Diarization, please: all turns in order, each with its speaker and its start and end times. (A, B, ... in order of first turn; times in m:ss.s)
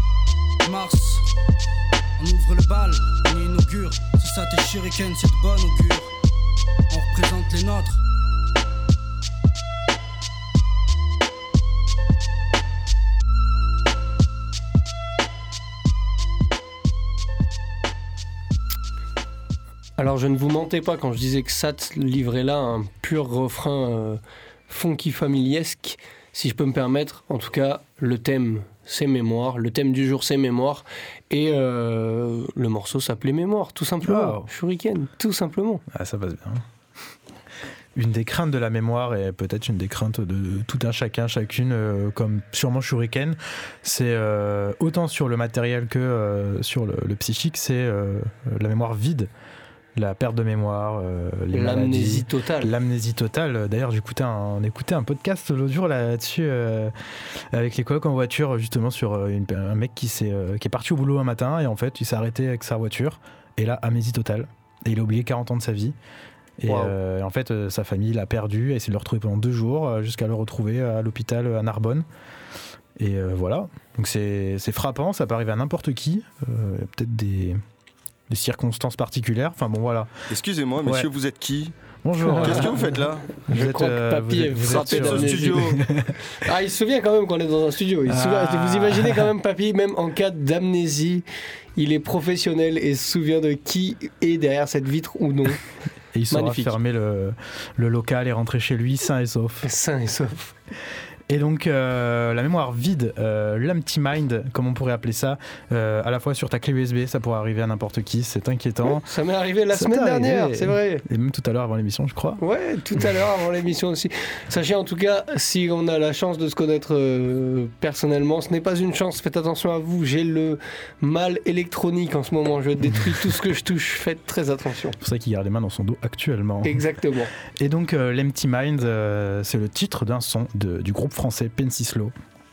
0:00.6-0:01.2 A
0:02.2-0:06.1 A
0:06.9-0:08.0 A
0:20.0-0:35.8 B
0:34.0-0:34.5 C
0:35.9-0:36.6 C
0:38.0-0:49.3 C
0:50.0-0:56.9 C
0:51.5-0:52.7 B
0:57.5-1:06.0 C
1:06.6-1:12.1 C
1:06.7-1:07.0 B
1:13.0-1:17.6 C
1:18.3-1:20.1 C
1:20.3-1:21.8 D
1:20.8-1:21.1 C
1:22.0-1:26.1 C
1:22.3-1:23.7 D
1:23.5-1:25.8 B
1:24.5-1:25.8 D
1:26.4-1:31.2 B
1:28.1-1:29.3 C
1:31.8-1:35.6 B
1:36.1-1:39.7 C
1:36.3-1:36.7 B
1:39.6-1:40.5 B
1:41.3-1:49.1 C
1:48.9-1:51.0 B
1:49.7-1:52.4 C
1:52.4-2:05.0 B
2:05.0-2:06.9 C
2:06.6-2:07.3 B
2:07.6-2:12.1 C